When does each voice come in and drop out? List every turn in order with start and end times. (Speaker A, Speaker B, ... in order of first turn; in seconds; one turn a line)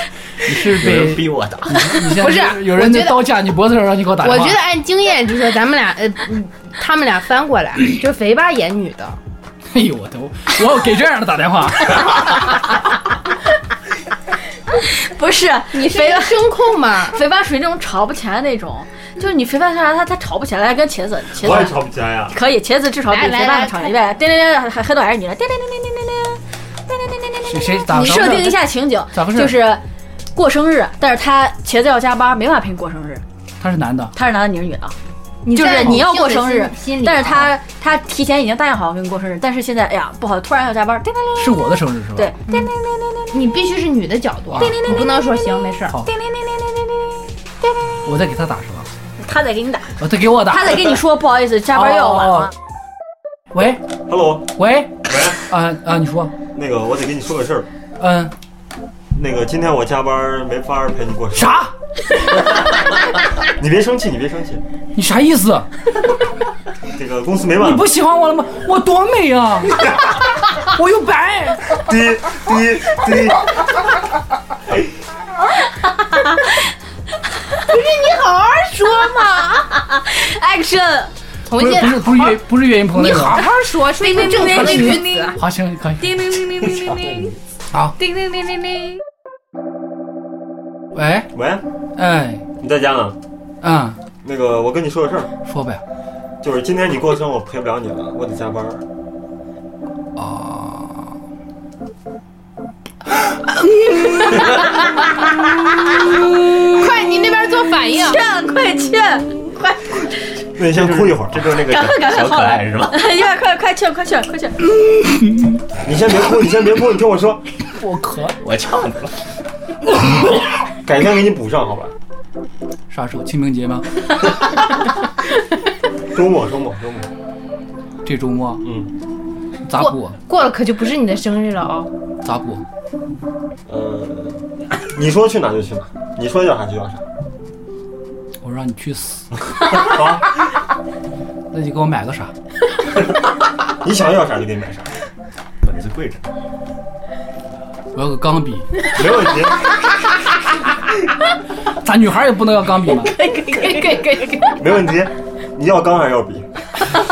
Speaker A: 0.4-4.6
Speaker B: 0.7-1.9
Speaker C: 2.0-3.3
Speaker C: 4.2-9.2
Speaker A: 9.7-12.7
Speaker D: 14.8-29.8
Speaker C: 15.7-17.1
Speaker E: 21.4-22.4
Speaker C: 23.1-24.0
Speaker A: 27.4-28.6
Speaker C: 27.9-28.5
Speaker A: 29.1-29.6
Speaker D: 30.3-33.2
Speaker A: 33.6-34.1
Speaker D: 34.1-34.9
Speaker C: 35.4-37.5
Speaker D: 35.5-41.6
Speaker A: 41.4-42.4
Speaker D: 42.1-43.3
Speaker C: 43.3-45.9
Speaker A: 44.5-45.0
Speaker D: 44.6-45.0
Speaker D: 46.1-47.1
Speaker A: 48.0-48.9
Speaker D: 49.2-52.5
Speaker A: 50.0-51.0
Speaker A: 51.7-52.5
Speaker A: 53.5-53.8
Speaker E: 54.1-54.5
Speaker A: 54.5-56.3
Speaker E: 55.0-55.4
Speaker E: 56.5-57.7
Speaker A: 58.0-58.3
Speaker E: 59.1-61.6
Speaker A: 61.3-61.7
Speaker E: 63.5-64.6
Speaker A: 64.9-65.7
Speaker E: 66.9-67.9
Speaker A: 67.6-71.8
Speaker E: 71.8-73.5
Speaker C: 77.7-79.7
Speaker D: 79.8-81.1
Speaker C: 81.5-85.4
Speaker A: 81.5-83.5
Speaker D: 84.0-85.4
Speaker A: 84.2-86.3
Speaker D: 86.0-87.3
Speaker B: 86.7-87.4
Speaker D: 88.0-88.9
Speaker A: 90.9-91.3
Speaker E: 91.3-91.6
Speaker A: 92.0-92.4
Speaker E: 92.6-93.2
Speaker A: 93.6-94.0
Speaker E: 94.2-95.3
Speaker A: 95.4-95.8
Speaker E: 96.4-98.8
Speaker A: 100.2-101.2
Speaker A: 104.0-104.3
Speaker C: 106.7-108.2
Speaker D: 107.9-110.3
Speaker E: 110.5-111.5
Speaker B: 110.7-113.0
Speaker D: 111.7-114.6
Speaker E: 115.8-117.4
Speaker A: 117.8-118.4
Speaker B: 118.4-119.2
Speaker E: 120.8-121.9
Speaker A: 122.9-123.9
Speaker E: 126.1-127.1
Speaker A: 128.0-128.7
Speaker E: 128.6-128.9
Speaker A: 129.7-130.2
Speaker C: 129.7-131.9
Speaker A: 132.2-132.6
Speaker E: 133.7-134.4
Speaker E: 134.9-137.0
Speaker A: 138.4-139.3
Speaker E: 139.7-140.3
Speaker A: 141.5-142.3
Speaker E: 143.8-144.9
Speaker B: 145.6-146.2
Speaker A: 147.9-148.7
Speaker E: 148.9-149.7
Speaker A: 151.8-153.1
Speaker D: 153.2-154.6
Speaker E: 154.6-156.5